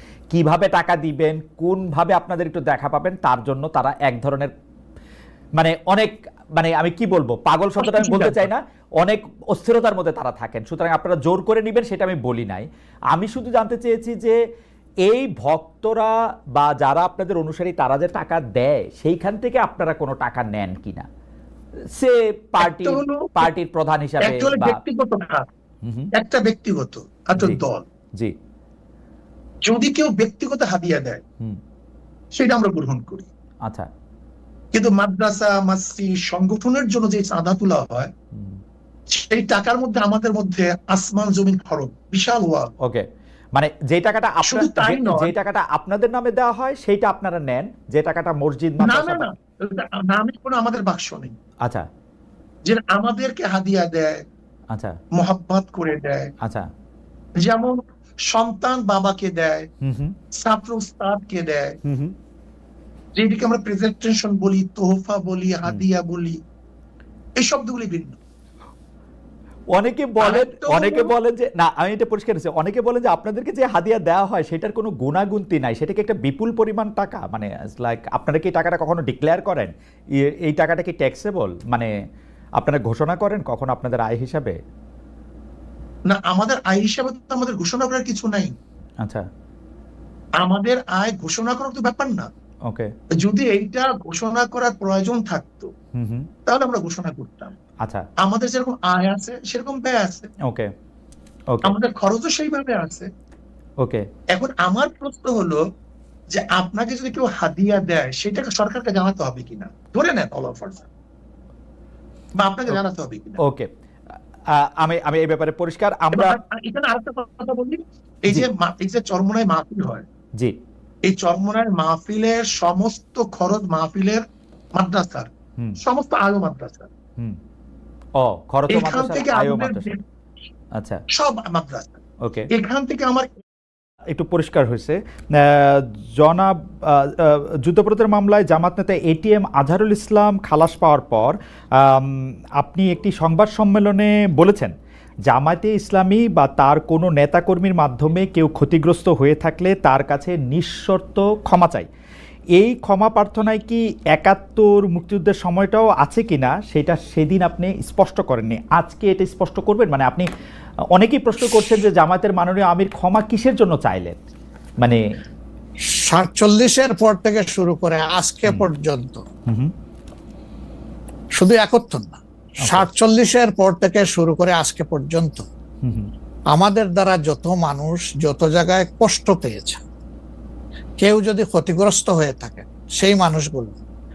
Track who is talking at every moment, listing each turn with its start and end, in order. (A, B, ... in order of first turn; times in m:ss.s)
0:00.3-0:04.5 A
0:05.6-0:14.4 A
0:07.8-0:08.5 B
0:15.0-0:21.0 A
0:21.9-0:24.8 A
0:22.6-0:23.4 B
0:24.2-0:25.5 B
0:25.8-0:26.1 A
0:26.1-0:27.8 B
0:29.6-0:31.2 B
0:32.3-0:33.3 B
0:34.7-0:38.1 B
0:38.3-0:38.6 A
0:39.1-0:42.7 B
0:43.5-0:49.2 A
0:44.4-0:45.3 B
0:48.8-0:51.3 B
0:52.6-0:54.2 B
0:55.2-0:56.3 B
0:56.4-0:56.7 A
0:57.4-0:57.8 B
0:58.3-0:59.7 B
0:59.8-1:00.1 A
1:00.4-1:01.8 B
1:01.8-1:02.1 A
1:03.1-1:06.4 B
1:07.4-1:08.2 B
1:09.7-1:21.9 A
1:10.2-1:11.1 B
1:22.6-1:24.6 A
1:26.1-1:28.5 B
1:30.4-1:32.3 B
1:33.2-1:35.7 B
1:35.9-1:36.3 A
1:36.4-1:37.6 B
1:38.2-1:40.3 B
1:40.4-1:40.7 A
1:41.6-1:43.1 B
1:44.3-1:45.6 B
1:46.3-1:50.9 B
1:52.4-1:53.4 B
1:53.4-1:53.7 A
1:54.5-1:56.4 A
1:56.1-2:00.0 B
2:01.0-2:04.2 B
2:04.8-2:05.3 B
2:05.8-2:06.9 B
2:08.2-2:09.9 A
2:08.7-2:10.0 B
2:11.1-2:12.0 B
2:12.2-2:12.5 A
2:12.5-2:13.3 B
2:14.1-2:24.7 A
2:25.3-2:31.9 A
2:32.6-2:40.3 A
2:40.9-2:44.2 A
2:46.0-2:49.2 C
2:49.5-2:49.7 A
2:51.3-2:55.5 C
2:52.6-2:52.9 A
2:55.8-2:56.1 A
2:56.5-2:59.8 C
3:01.0-3:03.8 C